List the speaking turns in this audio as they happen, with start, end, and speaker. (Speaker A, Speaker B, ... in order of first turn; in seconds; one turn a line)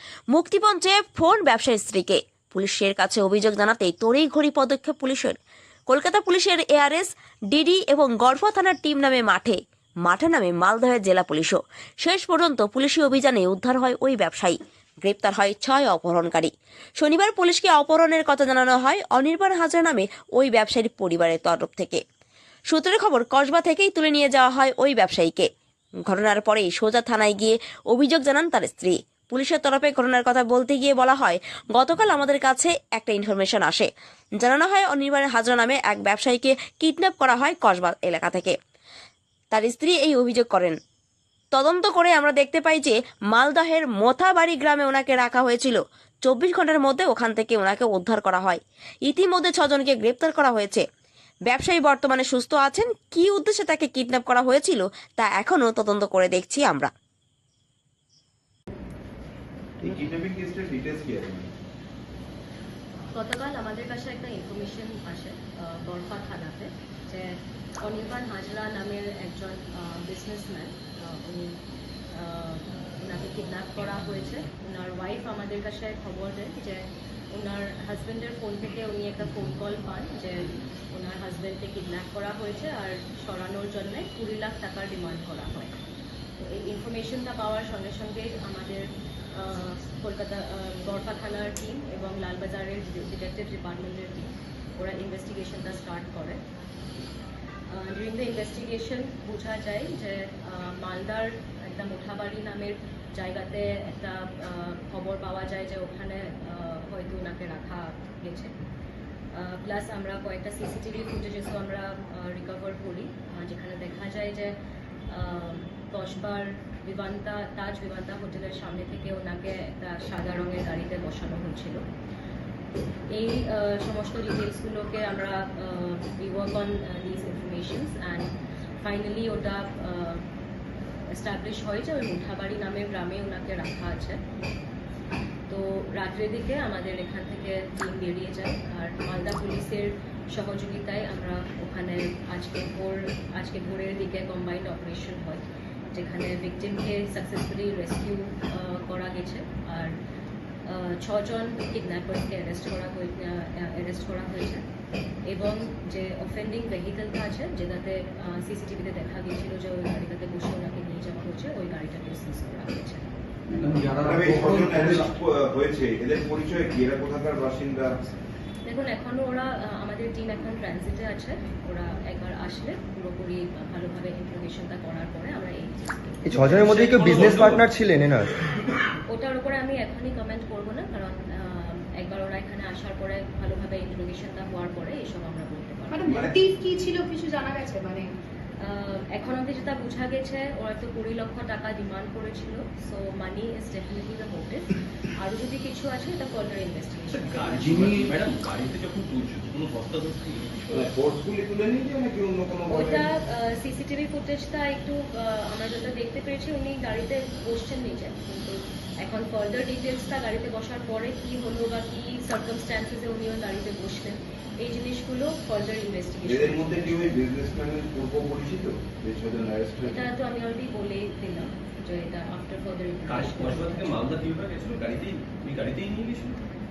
Speaker A: 0.3-5.3
Speaker A: 5.9-22.0
Speaker A: 22.7-25.5
Speaker A: 26.1-33.9
Speaker A: 34.4-38.5
Speaker A: 39.5-40.8
Speaker A: 41.5-50.8
Speaker A: 51.5-56.9
Speaker B: 59.8-61.5
Speaker C: 63.1-71.6
Speaker C: 72.1-85.7
Speaker C: 86.4-96.4
Speaker C: 97.7-108.5
Speaker C: 109.3-114.5
Speaker C: 115.1-121.8
Speaker C: 123.1-128.3
Speaker C: 128.8-130.2
Speaker C: 131.1-134.2
Speaker C: 135.5-145.4
Speaker C: 145.9-149.9
Speaker C: 150.7-154.6
Speaker C: 155.3-163.0
Speaker D: 163.5-165.1
Speaker B: 164.0-168.0
Speaker C: 168.7-177.3
Speaker E: 176.2-178.4
Speaker D: 176.7-177.6
Speaker C: 179.1-186.0
Speaker F: 185.9-188.1
Speaker B: 186.1-186.4
Speaker C: 188.6-198.1
Speaker D: 197.1-200.8
Speaker B: 200.7-203.1
Speaker C: 202.7-217.2
Speaker B: 216.2-220.0
Speaker C: 219.8-224.0
Speaker D: 223.1-226.4